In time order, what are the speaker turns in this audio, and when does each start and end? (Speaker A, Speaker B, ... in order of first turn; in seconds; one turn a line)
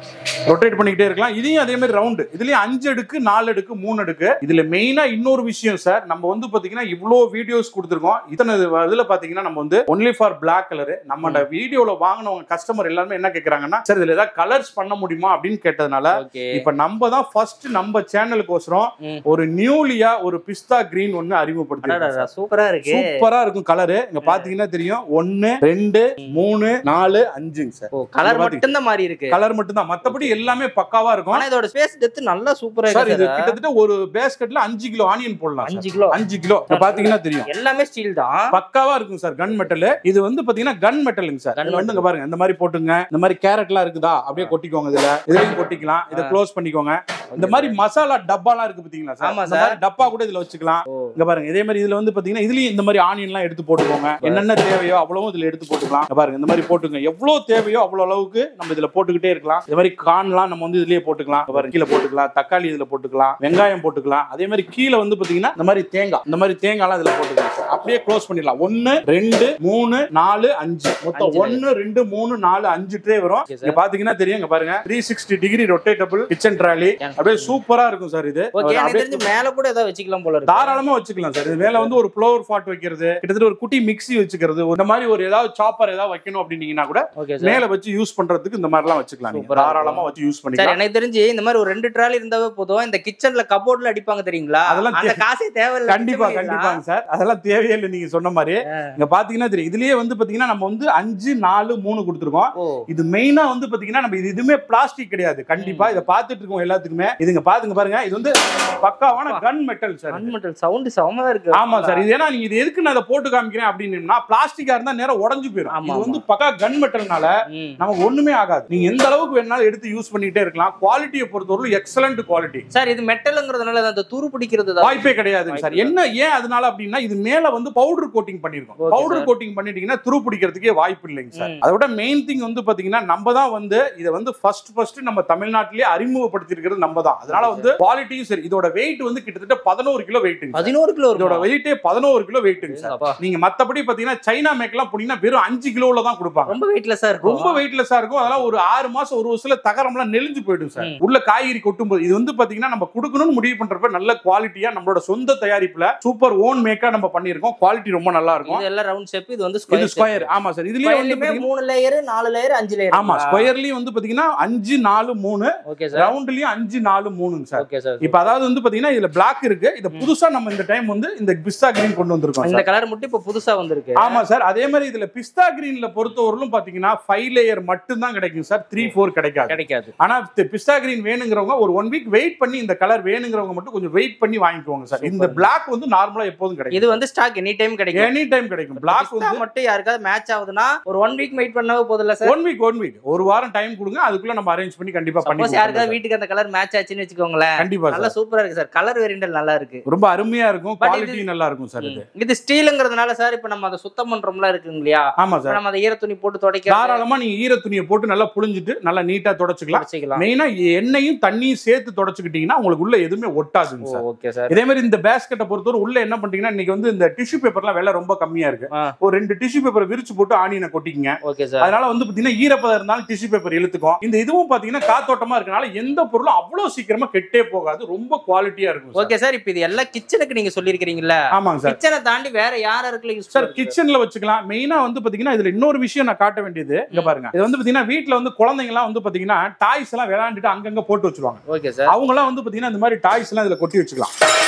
Speaker A: 0.5-22.3
Speaker B: 16.1-16.6
Speaker B: 21.8-23.1
Speaker A: 22.9-28.6
Speaker B: 24.2-24.5
Speaker B: 27.9-29.4
Speaker A: 29.3-31.4
Speaker B: 30.0-30.5
Speaker B: 31.3-33.5
Speaker A: 32.9-37.5
Speaker B: 35.6-36.2
Speaker B: 36.7-38.5
Speaker A: 38.5-79.2
Speaker B: 41.6-42.0
Speaker B: 47.3-47.8
Speaker B: 49.2-49.8
Speaker B: 50.9-51.1
Speaker B: 54.2-54.5
Speaker B: 61.5-61.7
Speaker B: 71.2-71.6
Speaker B: 73.5-73.8
Speaker B: 77.0-77.6
Speaker B: 78.6-80.8
Speaker A: 80.5-90.8
Speaker B: 81.5-81.9
Speaker B: 87.2-87.6
Speaker B: 89.3-90.0
Speaker B: 90.6-96.8
Speaker A: 94.7-95.2
Speaker A: 95.9-110.3
Speaker B: 105.6-106.0
Speaker B: 109.1-109.4
Speaker B: 110.1-112.1
Speaker A: 111.5-122.7
Speaker B: 115.7-116.2
Speaker B: 117.5-117.8
Speaker B: 122.7-125.9
Speaker A: 124.8-146.6
Speaker B: 128.8-129.3
Speaker B: 137.3-137.7
Speaker B: 140.6-141.5
Speaker B: 142.7-143.2
Speaker B: 146.5-147.6
Speaker A: 147.2-158.6
Speaker B: 148.3-148.5
Speaker B: 158.4-160.3
Speaker A: 159.7-161.5
Speaker B: 160.8-163.5
Speaker A: 162.9-172.6
Speaker B: 165.7-166.1
Speaker B: 167.6-168.3
Speaker B: 172.4-174.2
Speaker A: 174.0-187.0
Speaker B: 179.5-179.9
Speaker B: 185.0-185.5
Speaker B: 186.7-188.1
Speaker A: 187.9-189.4
Speaker B: 188.8-192.3
Speaker A: 192.2-196.0
Speaker B: 195.2-199.8
Speaker A: 197.6-198.1
Speaker A: 199.9-202.0
Speaker B: 200.8-201.2
Speaker B: 201.8-207.0
Speaker A: 205.2-205.6
Speaker A: 206.7-229.1
Speaker B: 209.7-210.2
Speaker B: 213.8-214.6
Speaker B: 221.3-221.7
Speaker B: 228.9-233.8
Speaker A: 231.3-231.8
Speaker A: 233.3-244.1
Speaker B: 241.5-241.9